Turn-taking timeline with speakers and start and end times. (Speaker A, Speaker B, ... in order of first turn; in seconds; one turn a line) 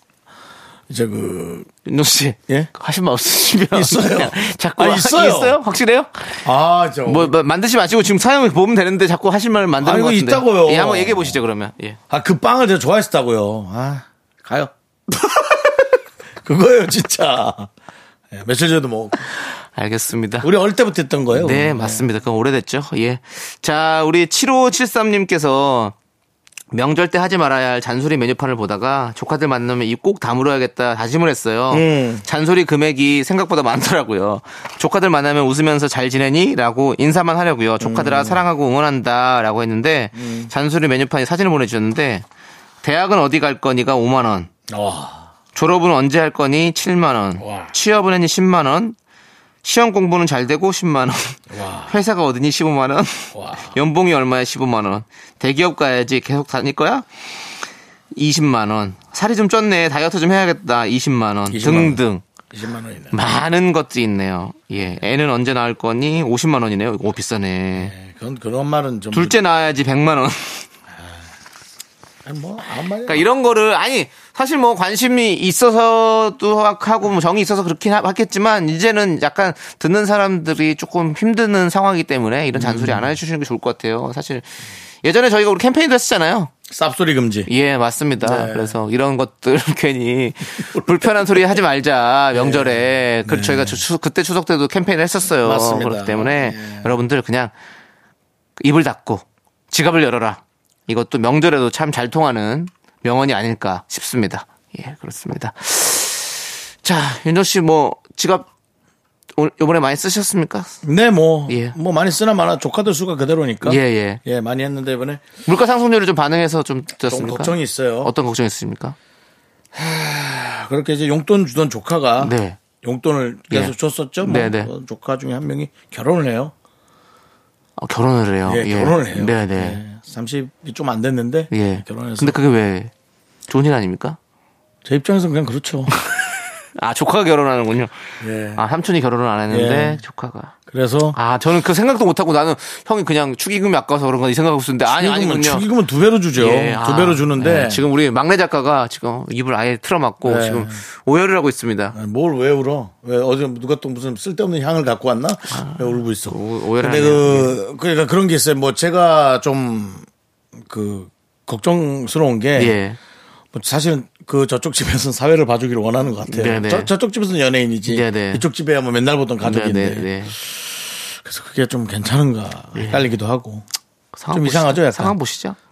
Speaker A: 0.9-1.7
Speaker B: 1.8-6.5
Speaker A: 3.7-5.6
Speaker A: 6.4-7.3
Speaker B: 7.0-12.0
Speaker A: 9.8-11.4
Speaker A: 12.1-17.7
Speaker A: 18.3-19.3
Speaker B: 19.7-20.5
Speaker A: 20.4-22.1
Speaker B: 21.3-25.9
Speaker B: 26.7-42.2
Speaker A: 31.7-32.2
Speaker A: 37.8-38.4
Speaker A: 40.1-40.5
Speaker B: 42.8-44.5
Speaker A: 44.7-45.3
Speaker B: 45.5-49.0
Speaker A: 47.4-47.7
Speaker B: 49.6-57.0
Speaker A: 51.5-51.9
Speaker A: 53.3-53.7
Speaker B: 58.1-62.2
Speaker A: 61.5-63.2
Speaker B: 63.1-67.9
Speaker A: 67.7-69.4
Speaker B: 69.1-70.7
Speaker A: 70.9-71.2
Speaker A: 72.2-73.2
Speaker B: 73.0-86.5
Speaker A: 82.5-83.2
Speaker A: 86.7-87.5
Speaker B: 87.5-97.5
Speaker A: 88.2-88.8
Speaker A: 90.6-91.3
Speaker A: 92.3-93.8
Speaker A: 95.4-96.9
Speaker B: 98.6-108.5
Speaker B: 109.3-110.8
Speaker A: 110.8-115.2
Speaker B: 111.5-111.8
Speaker B: 113.6-114.2
Speaker B: 115.5-119.0
Speaker A: 117.0-118.1
Speaker A: 119.7-126.5
Speaker B: 122.2-122.6
Speaker B: 123.5-124.7
Speaker B: 127.8-129.8
Speaker A: 128.4-132.4
Speaker B: 131.5-132.9
Speaker B: 133.5-134.2
Speaker A: 134.8-135.9
Speaker B: 136.8-137.9
Speaker A: 138.2-138.6
Speaker B: 138.5-140.5
Speaker A: 139.5-140.0
Speaker A: 140.7-141.2
Speaker B: 141.1-145.7
Speaker A: 144.8-147.8
Speaker B: 146.3-151.9
Speaker A: 150.2-150.8
Speaker A: 151.9-160.1
Speaker B: 155.5-157.6
Speaker A: 160.6-162.8
Speaker B: 162.6-163.0
Speaker A: 163.5-173.7
Speaker B: 166.3-166.9
Speaker B: 167.9-168.4
Speaker B: 169.4-170.3
Speaker B: 172.7-173.1
Speaker B: 174.1-175.6
Speaker A: 174.3-175.1